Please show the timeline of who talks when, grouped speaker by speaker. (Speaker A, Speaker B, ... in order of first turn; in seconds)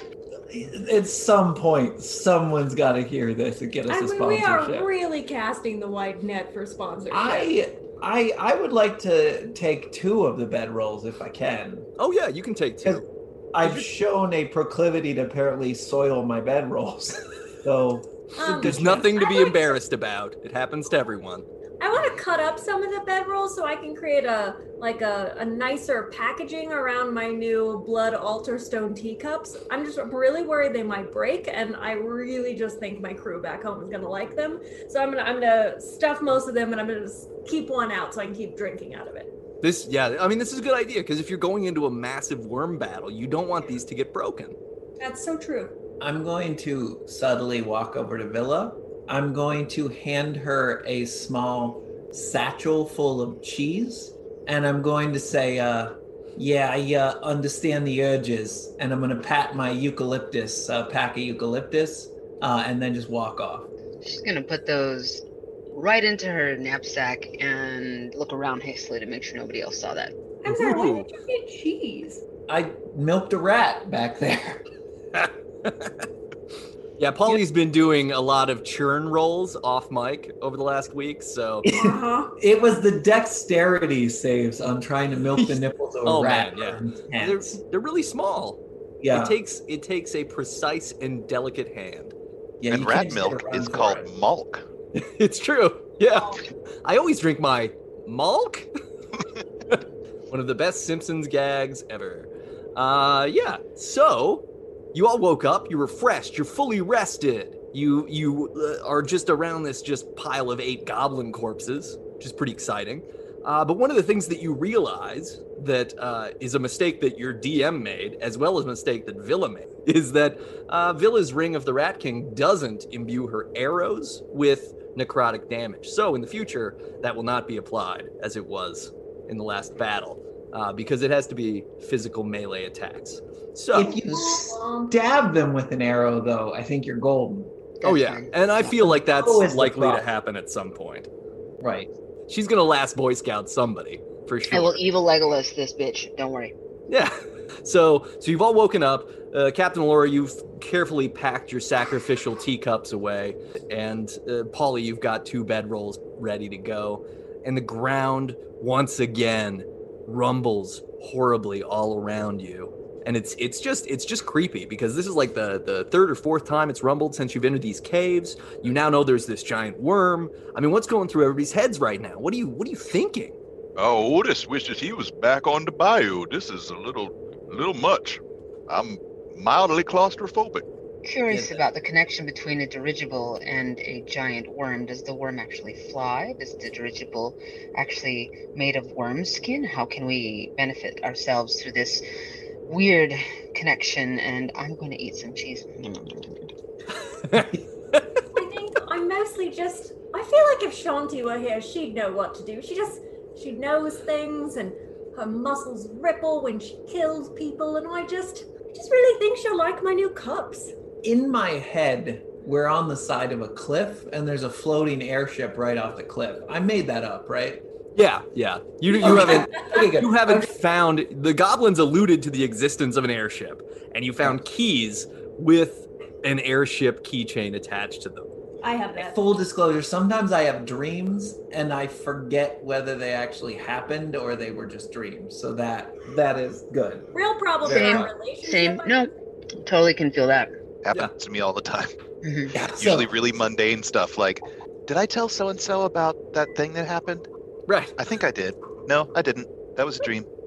Speaker A: 0.5-4.9, 7.1-11.9, 13.5-19.1, 46.0-63.7, 72.5-74.6, 81.6-87.6, 89.0-89.4, 92.6-94.1, 133.7-137.5, 138.6-140.0, 141.6-141.9, 181.3-181.6, 211.0-217.6, 218.9-220.5, 229.0-237.1, 237.7-238.1, 242.5-243.1
Speaker B: 3.9-7.5, 18.4-19.8, 21.8-39.3, 45.0-45.8, 70.4-72.2, 81.7-82.3, 134.0-134.9, 198.3-210.7, 219.3-219.8, 228.6-229.2, 237.1-239.1
Speaker C: 12.0-13.1, 18.4-21.4, 39.6-44.5, 70.5-71.1, 75.1-76.0, 77.0-81.6, 85.3-92.1, 95.2-98.7, 99.7-134.0, 137.8-141.1, 142.3-144.8, 146.9-173.3, 197.2-198.2, 217.9-228.3, 247.7-247.9
Speaker D: 64.0-70.1, 137.8-138.3, 144.5-146.5, 181.0-192.0, 192.7-196.5, 237.7-239.1, 239.6-240.5, 242.2-242.5
Speaker E: 92.7-94.6, 240.8-241.9, 242.8-247.2, 248.0-250.3
Speaker F: 173.8-180.6